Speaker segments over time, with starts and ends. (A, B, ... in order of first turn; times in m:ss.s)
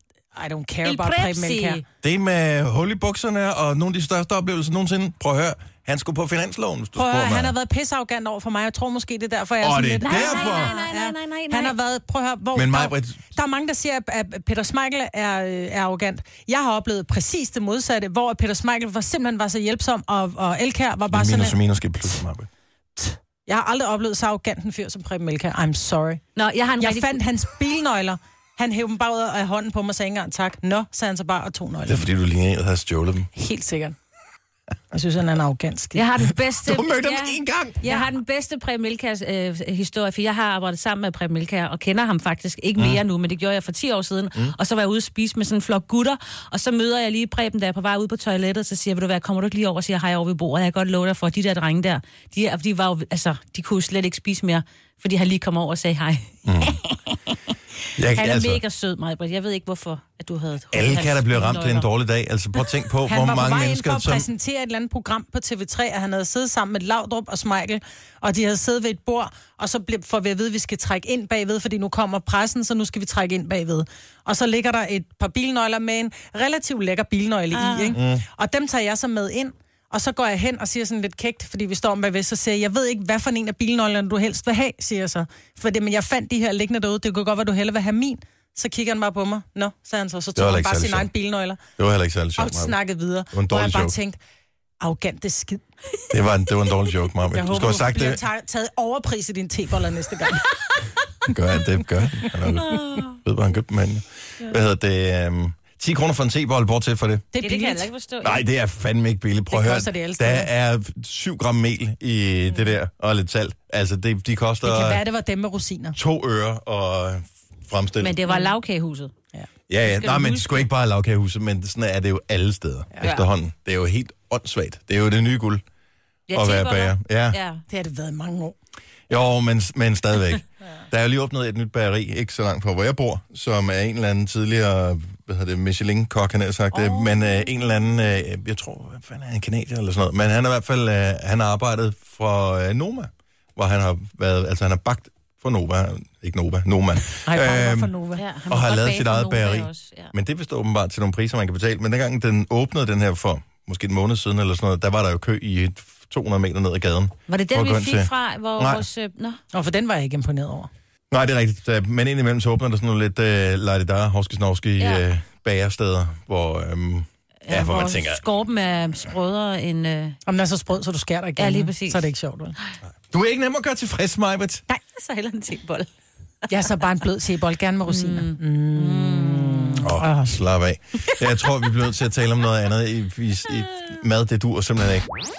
0:00.4-0:01.8 A
0:00.8-0:01.8 B
0:02.0-0:07.6 C
0:07.0-0:21.6 A
0:09.6-0:10.8 C
0:10.0-0:11.8 B
0:12.5-0:13.2 C
0:21.1-0:22.5 C
0:23.0-0:26.2 A
0:26.4-0:27.2 B
0:26.8-0:32.1 A
0:31.9-0:33.3 C
0:33.4-0:34.0 A
0:34.9-0:36.0 A
0:36.0-0:57.4 B
0:36.6-0:37.8 C
0:37.8-0:38.1 A
0:56.4-0:56.8 C
0:58.0-0:58.6 C
0:58.0-1:01.9 B
1:00.7-1:04.3 C
1:03.1-1:31.6 A
1:17.5-1:18.0 B
1:18.0-1:18.2 C
1:30.4-1:31.1 C
1:31.8-1:32.8 C
1:32.4-1:34.2 A
1:33.3-1:34.0 C
1:34.8-1:35.6 A
1:36.1-1:38.2 C
1:37.3-1:40.5 A
1:41.3-1:47.3 C
1:42.4-1:43.2 B
1:47.3-1:47.9 A
1:47.4-1:48.4 B
1:48.2-1:55.0 C
1:49.5-1:50.5 A
1:54.6-1:56.0 A
1:56.0-1:58.2 C
1:58.0-1:59.1 B
1:58.3-1:58.5 A
1:59.7-2:05.6 C
1:59.8-2:00.6 B
2:06.3-2:07.6 B
2:06.3-2:07.4 C
2:07.7-2:08.6 A
2:09.1-2:27.9 C
2:16.7-2:17.5 B
2:27.3-2:28.2 A
2:28.1-2:30.1 B
2:28.5-2:38.8 C
2:37.3-2:39.4 B
2:39.5-2:40.7 A
2:41.1-2:48.2 C
2:44.8-2:45.1 B
2:47.4-2:50.2 B
2:50.3-2:52.6 A
2:51.4-2:52.6 B
2:53.1-2:54.6 C
2:54.7-2:55.9 B
2:56.5-3:00.4 A
2:57.9-2:59.9 B
2:59.8-3:05.1 C